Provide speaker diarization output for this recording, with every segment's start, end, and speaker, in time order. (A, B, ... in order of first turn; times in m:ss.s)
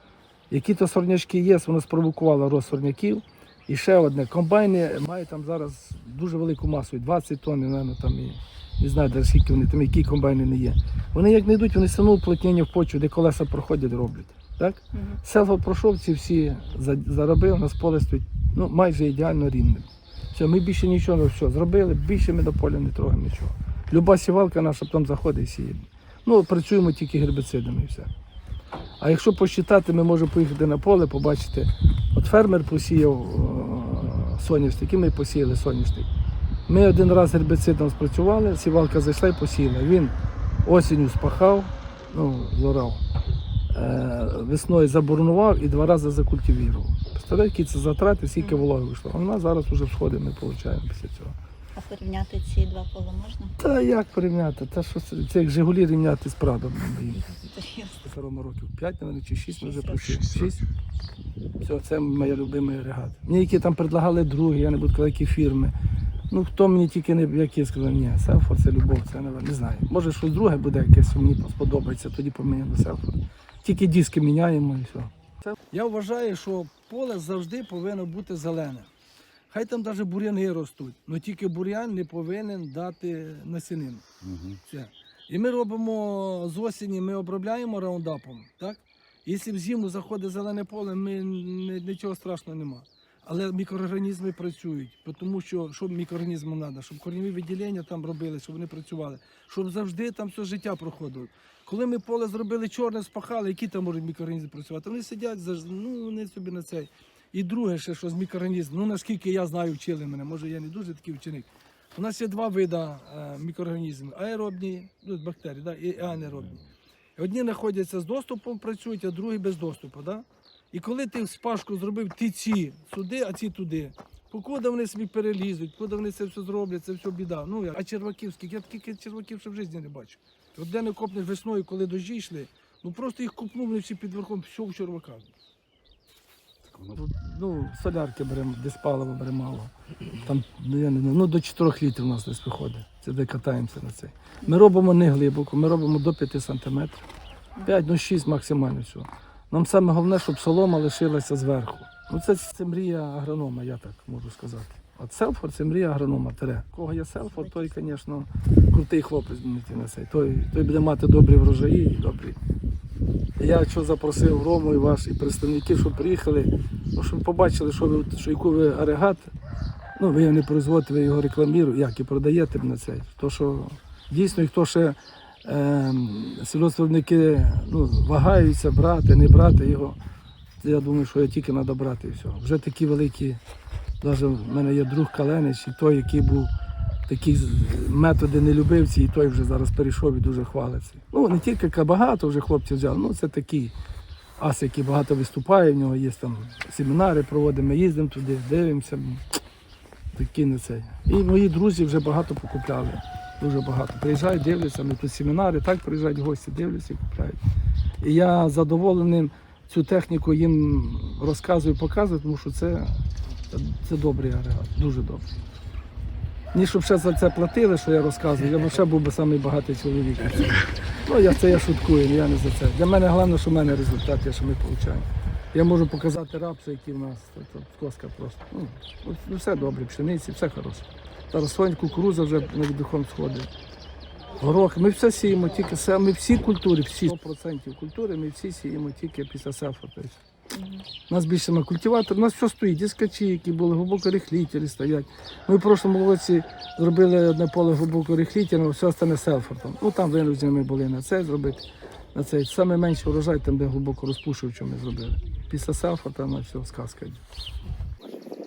0:00.5-0:28.1 A
0:14.9-0:15.2 B
0:29.0-0:36.1 A
0:36.7-0:43.0 A
0:43.7-0:51.4 A
0:48.4-0:48.6 B
0:51.7-0:53.5 B
0:53.6-0:57.2 A
0:57.2-0:58.0 B
0:58.0-1:00.6 A
0:59.6-1:00.4 B
1:01.6-1:05.7 A
1:06.3-1:18.9 A
1:19.5-1:56.6 A
1:57.2-2:15.3 A
2:16.8-2:27.0 A
2:27.6-2:42.4 A
2:43.4-2:49.3 A
2:50.0-3:00.0 A
3:00.6-3:03.4 A
3:04.0-3:06.5 A
3:07.1-3:13.7 A
3:14.4-3:19.2 A
3:20.1-3:27.4 A
3:28.0-3:35.2 A
3:36.5-3:53.5 A
3:54.4-4:00.2 A
4:00.5-4:00.9 B
4:01.1-4:17.2 A